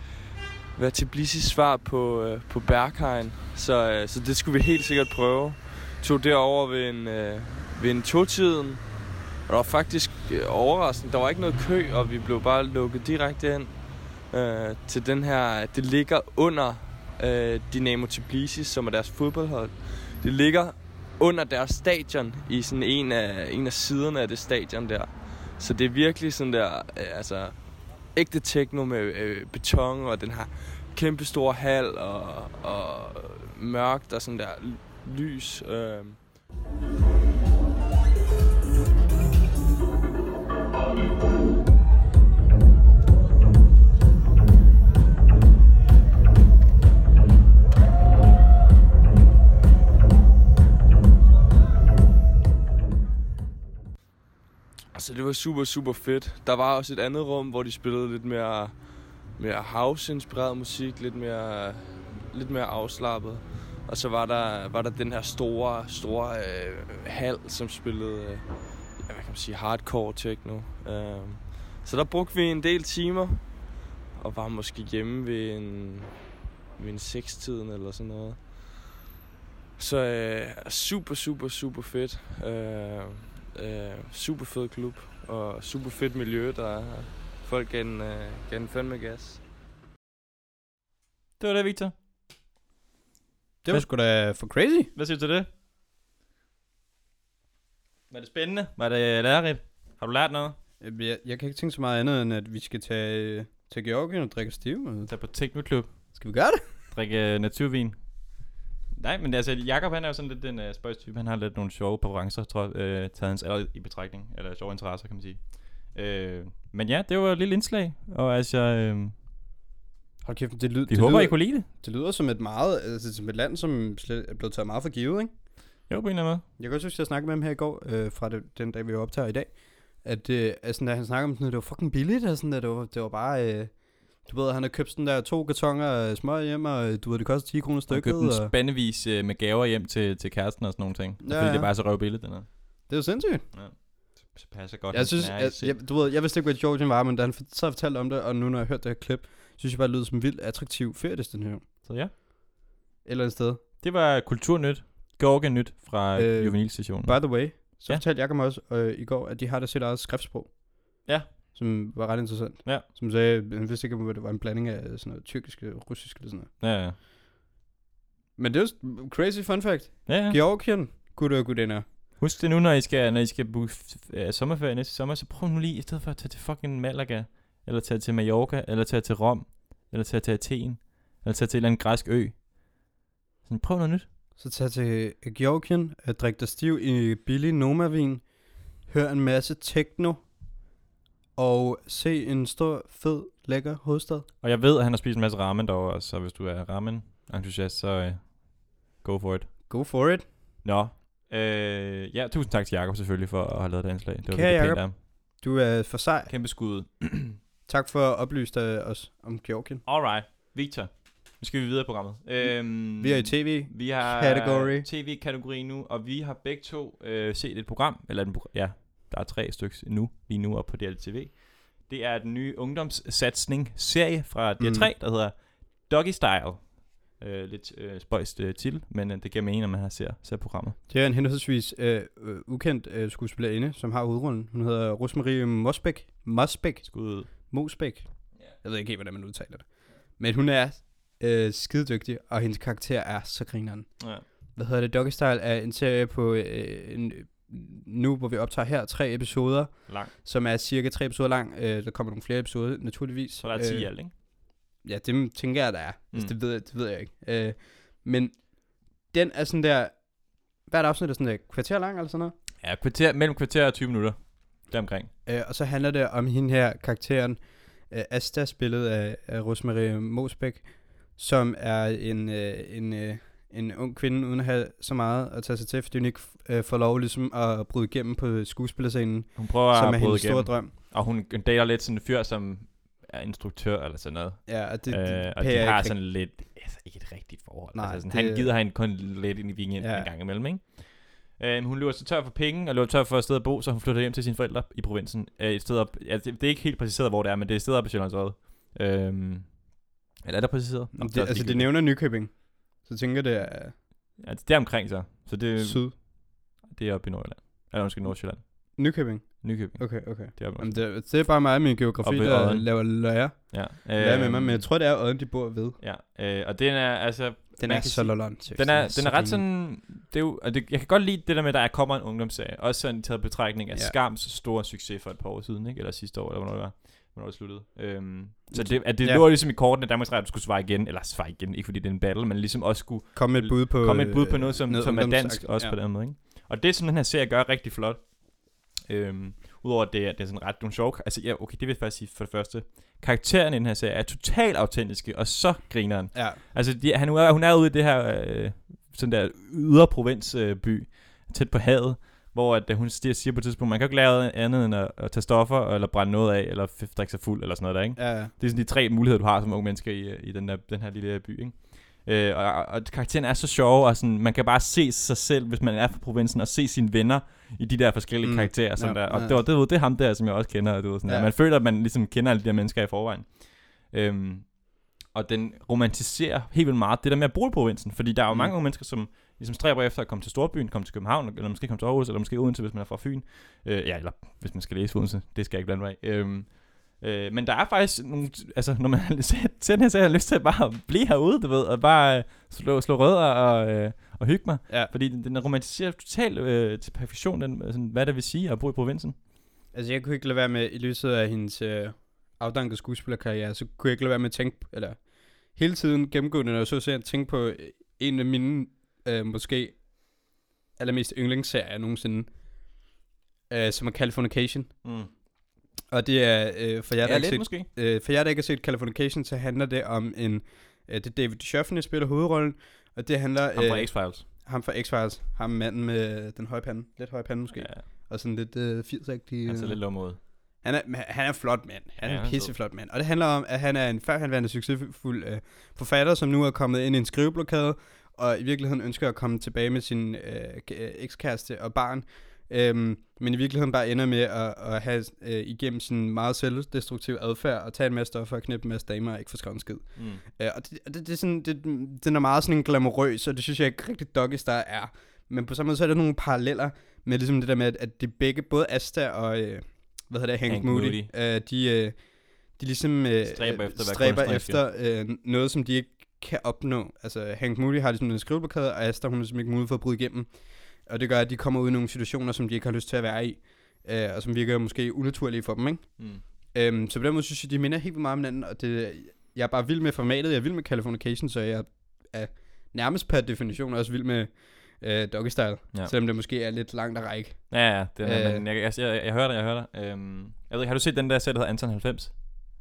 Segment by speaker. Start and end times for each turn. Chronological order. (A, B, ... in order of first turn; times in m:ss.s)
0:00.7-0:36.3 A
0:54.9-1:16.2 A
1:16.8-1:18.6 A
1:19.8-1:29.4 A
1:31.4-1:31.9 B
1:33.6-1:34.9 C
1:34.9-1:35.5 B
1:38.1-1:40.6 B
1:40.8-1:45.1 C
1:45.1-1:46.2 B
1:46.1-1:46.6 C
1:46.9-1:48.4 B
1:48.9-1:59.1 B
2:00.2-2:05.3 C
2:00.9-2:01.7 B
2:05.9-2:06.4 B
2:06.6-2:18.5 C
2:17.9-2:22.9 B
2:21.2-2:21.7 C
2:22.9-2:23.5 C
2:23.5-2:25.8 B
2:24.9-2:31.6 C
2:31.8-2:32.1 B
2:33.0-2:33.6 C
2:33.8-2:38.0 B
2:36.2-2:46.5 C
2:41.0-2:41.3 B
2:46.6-2:47.0 B
2:48.4-2:51.9 C
2:50.1-2:50.4 B
2:52.2-3:02.9 B
3:03.4-3:04.1 B
3:04.4-3:10.3 C
3:11.4-3:14.2 C
3:14.4-3:19.5 B
3:19.7-3:20.3 C
3:20.6-3:24.9 B
3:24.3-3:26.3 C
3:26.3-3:27.4 B
3:27.7-3:29.8 C
3:29.8-3:50.8 B
3:32.4-3:34.9 C
3:44.6-3:44.9 C
3:50.9-4:22.4 C
3:56.8-3:57.3 B
4:04.0-4:04.2 B
4:09.9-4:10.1 B
4:13.4-4:14.1 B
4:22.6-4:25.1 B
4:25.2-4:40.7 C
4:39.4-5:01.7 B
4:44.4-4:46.1 C
4:47.7-4:48.5 C
4:49.8-4:50.1 C
5:01.0-5:03.8 C
5:04.2-5:11.3 B
5:05.6-5:06.0 C
5:08.7-5:15.8 C
5:12.0-5:14.7 B
5:15.8-6:39.2 B
5:17.6-5:19.4 C
5:28.5-5:29.3 C
5:33.1-5:35.8 C
5:46.1-5:46.4 C
5:58.0-5:58.3 C
6:08.2-6:09.4 C
6:11.0-6:11.3 C
6:18.3-6:18.5 C
6:39.7-6:52.8 C
6:53.5-6:55.2 C
6:54.8-6:55.1 B
6:55.9-8:08.4 C
6:57.0-6:57.7 B
7:03.5-7:04.2 B
7:07.5-7:07.8 B
7:09.4-7:10.2 B
7:12.0-7:12.5 B
7:30.0-7:30.2 B
7:40.5-7:41.1 B
7:43.2-7:44.6 B
7:56.0-7:56.2 B
8:07.5-8:12.4 B